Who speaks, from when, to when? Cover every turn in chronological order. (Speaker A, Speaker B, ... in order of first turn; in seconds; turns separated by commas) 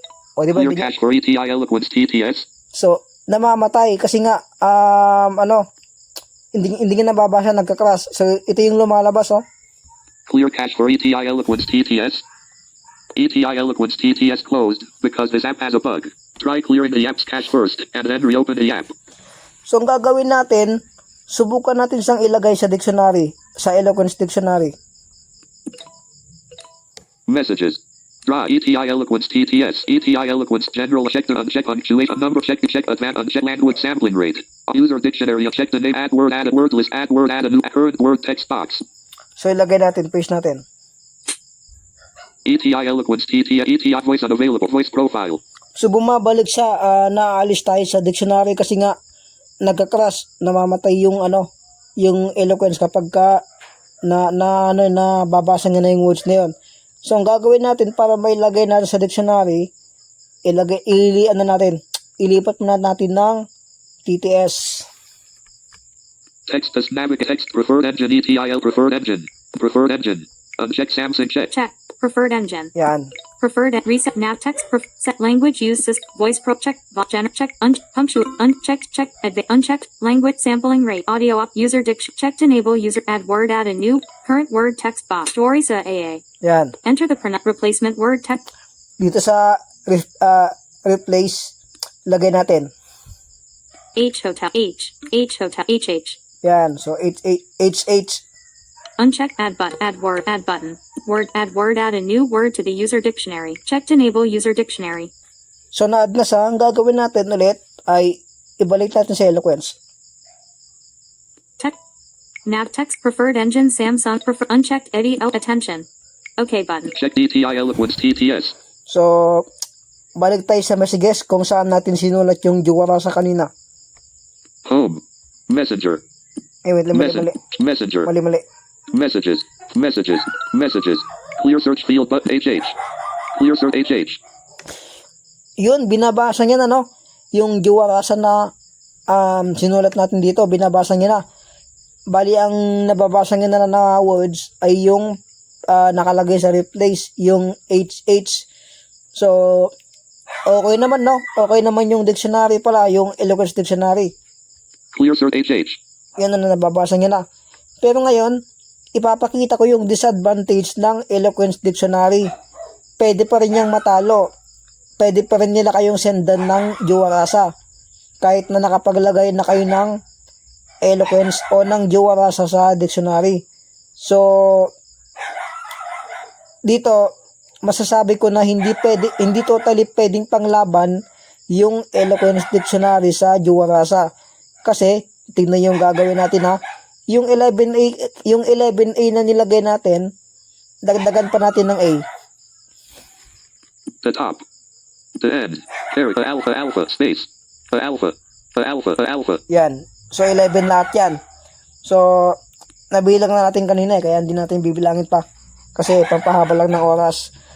Speaker A: 0.4-0.9, Speaker B: 0.5-2.5, Speaker A: 2.7-5.7, Speaker A: 6.5-9.4, Speaker B: 10.3-12.2, Speaker B: 13.2-18.9, Speaker A: 19.7-24.7, Speaker B: 27.3-38.8, Speaker A: 39.4-40.6, Speaker B: 42.5-45.4, Speaker A: 45.8-48.9, Speaker A: 49.6-51.5, Speaker A: 52.0-53.4, Speaker A: 54.0-56.5, Speaker A: 57.0-59.7, Speaker A: 60.5-63.5, Speaker A: 64.0-64.9, Speaker B: 66.5-71.5, Speaker C: 71.5-72.7, Speaker A: 72.8-73.1, Speaker C: 73.4-86.2, Speaker A: 86.4-86.8, Speaker C: 86.8-88.5, Speaker A: 89.0-91.5, Speaker A: 92.1-92.7, Speaker C: 94.0-96.2, Speaker A: 96.4-98.2, Speaker C: 99.0-105.1, Speaker A: 105.7-109.8, Speaker C: 112.5-115.9, Speaker C: 116.4-116.9, Speaker B: 116.9-118.5, Speaker A: 118.9-119.5, Speaker A: 120.2-123.5, Speaker B: 124.7-126.0, Speaker A: 126.7-127.4, Speaker B: 126.9-128.1, Speaker A: 128.1-128.4, Speaker B: 128.9-132.8, Speaker B: 133.3-134.2, Speaker A: 135.6-136.8, Speaker A: 137.3-138.5, Speaker A: 139.1-141.2, Speaker A: 142.1-145.1, Speaker A: 145.7-148.5, Speaker A: 149.1-149.7, Speaker A: 150.5-154.1, Speaker B: 154.9-155.8, Speaker A: 156.2-157.2, Speaker A: 157.8-158.4, Speaker A: 158.9-162.3, Speaker A: 163.0-164.2, Speaker A: 165.0-167.5, Speaker A: 168.2-170.0, Speaker A: 170.8-173.4, Speaker A: 174.0-174.7, Speaker A: 176.7-177.0, Speaker A: 177.6-180.9, Speaker A: 181.5-184.1, Speaker A: 184.7-186.6, Speaker A: 187.1-190.1, Speaker A: 190.8-192.0, Speaker B: 194.0-194.4, Speaker B: 195.2-199.4, Speaker A: 199.5-201.2, Speaker A: 201.8-202.4, Speaker A: 202.9-205.2, Speaker A: 205.8-207.3